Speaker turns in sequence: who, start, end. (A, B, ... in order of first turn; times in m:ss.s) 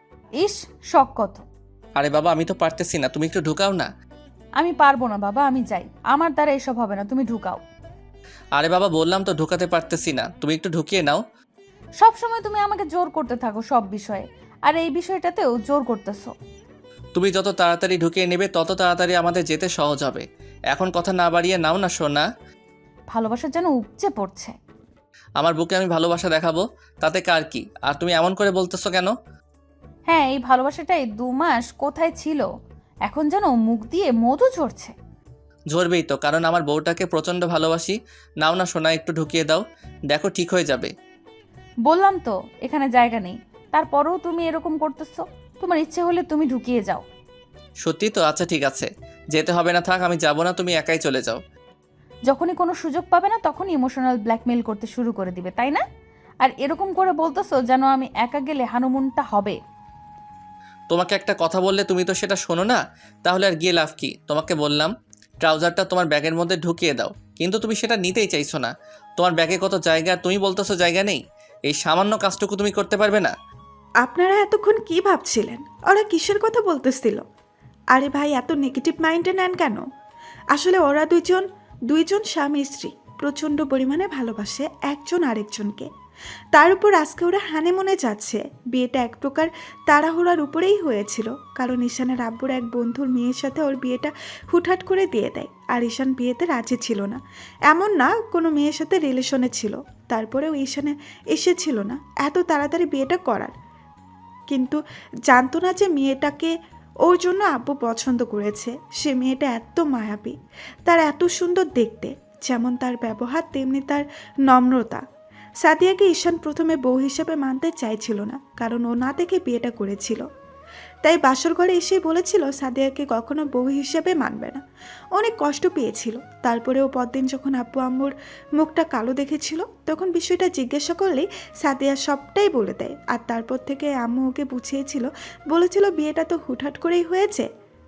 0:00.4-0:01.4 A
0:02.0-0:03.9 B
0:04.6-0:07.6 A
0:08.6-0:11.2 B
0:12.0-0:16.3 A
0:17.1-0:22.2 B
0:23.1-0:24.6 A
0:25.4-0:29.1 B
0:30.1-0:32.4 A
0:33.0-0:34.9 A
0:35.7-0:40.9 B
0:41.8-0:47.0 A
0:47.8-0:51.4 B
0:52.3-0:55.8 A
0:56.4-0:59.6 A
1:00.9-1:13.3 B
1:14.0-1:17.2 C
1:17.9-1:19.8 C
1:20.5-1:25.9 C
1:26.5-1:43.5 C
1:44.5-1:46.5 C
1:47.0-1:55.0 C
1:55.6-2:00.2 C
2:01.0-2:04.6 C
2:05.1-2:17.5 C